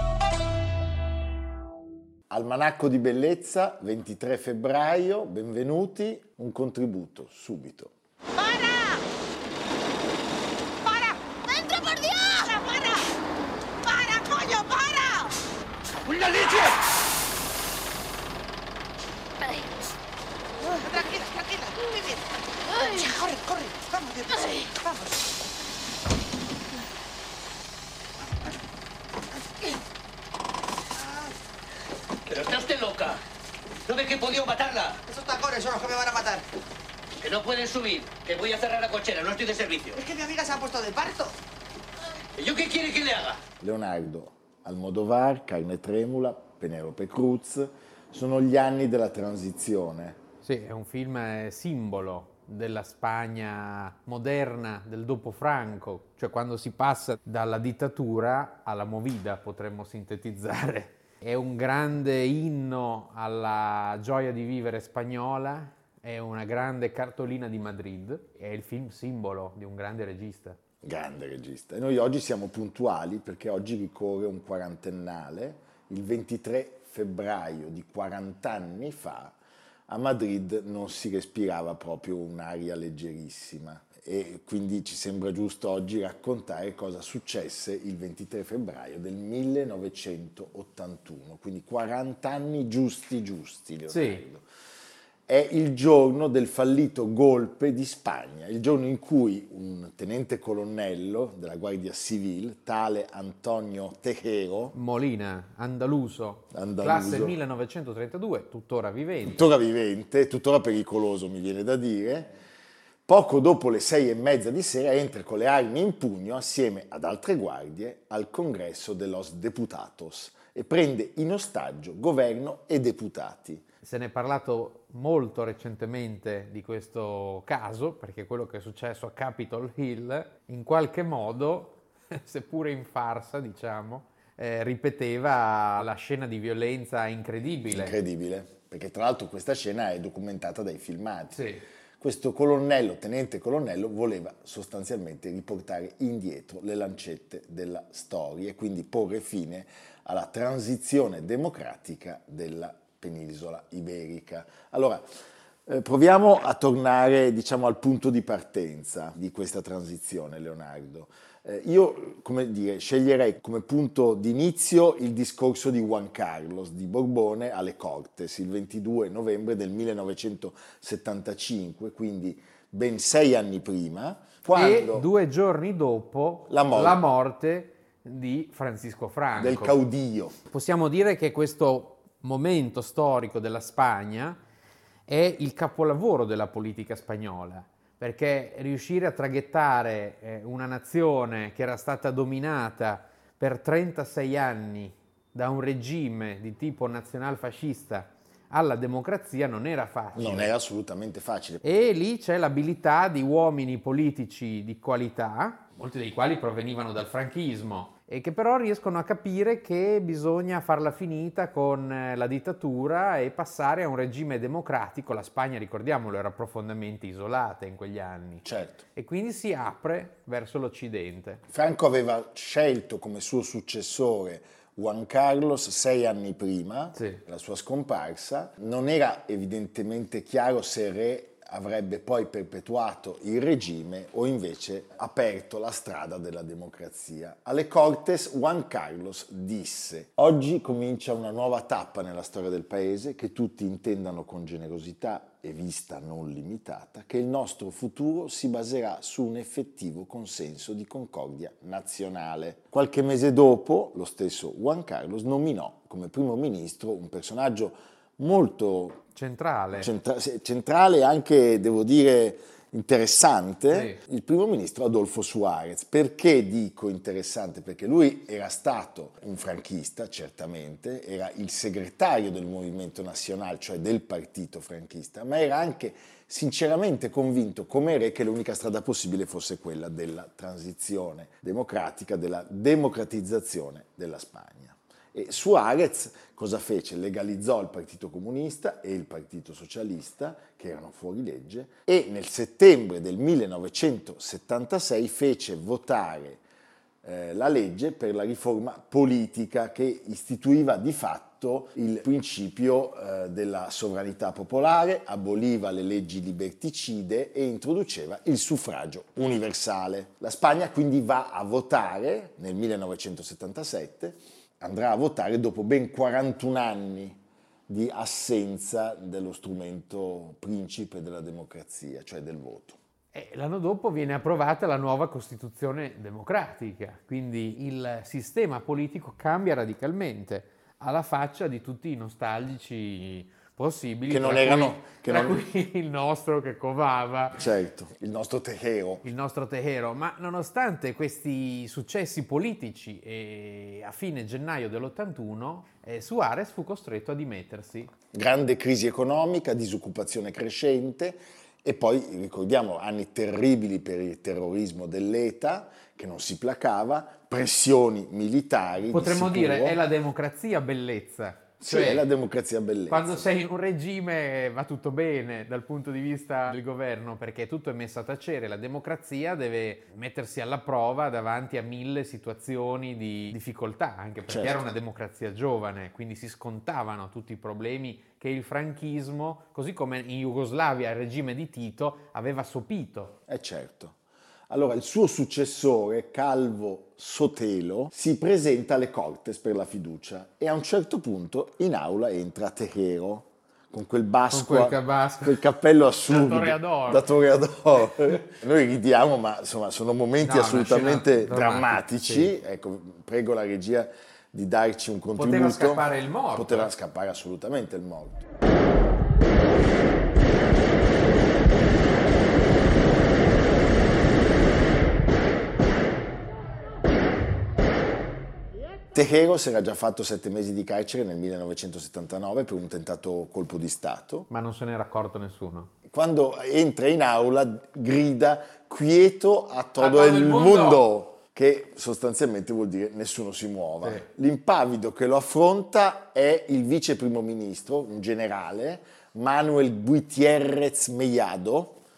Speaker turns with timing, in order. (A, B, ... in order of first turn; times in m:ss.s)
0:02.3-0:07.9 A
0:08.4-0:09.0 B
0:10.8-0:13.0 B
0:13.8-0:15.3 B
0:16.0-0:16.7 B
0:20.6-0:25.2 B
0:31.0-0:31.3 B
0:32.3-0:33.2 C
0:33.9-0:35.0 C
0:35.1-0:36.4 B
0:37.2-0:40.0 C
0:40.0-0:41.4 B
0:42.4-0:43.4 C
0:43.6-0:50.2 A
0:50.4-1:10.6 D
1:10.8-1:19.3 A
1:19.9-1:34.4 A
1:33.9-1:34.2 D
1:35.3-1:44.7 A
1:44.7-1:49.5 D
1:46.5-1:47.3 A
1:49.2-1:52.3 A
1:53.1-2:03.6 A
2:03.8-2:18.0 D
2:17.7-2:21.4 A
2:21.3-2:21.6 D
2:22.0-2:35.0 A
2:35.7-2:55.1 A
2:54.5-2:59.8 D
2:56.5-2:57.0 A
2:59.4-3:00.3 A
3:00.5-3:04.4 D
3:05.1-3:20.5 D
3:20.1-3:21.6 A
3:21.6-3:41.4 D
3:38.4-3:38.8 A
3:41.5-4:19.0 A
3:46.9-3:47.2 D
4:19.2-4:19.9 D
4:19.7-4:56.4 A
4:23.7-4:24.0 D
4:57.0-5:22.8 A
5:23.1-5:37.4 D
5:34.1-5:35.4 A
5:37.3-5:39.0 A
5:39.0-5:47.9 D
5:48.1-5:59.8 A
5:58.9-6:02.1 D
6:01.6-6:03.2 A
6:02.9-6:23.2 D
6:14.3-6:14.6 A
6:23.3-6:23.9 A
6:24.5-6:48.2 A
6:34.3-6:35.4 D
6:36.1-6:37.0 D
6:40.2-6:42.3 D
6:45.2-6:46.7 D
6:58.9-7:04.3 A
7:04.3-7:05.7 D
7:05.8-7:21.8 A
7:09.8-7:10.8 D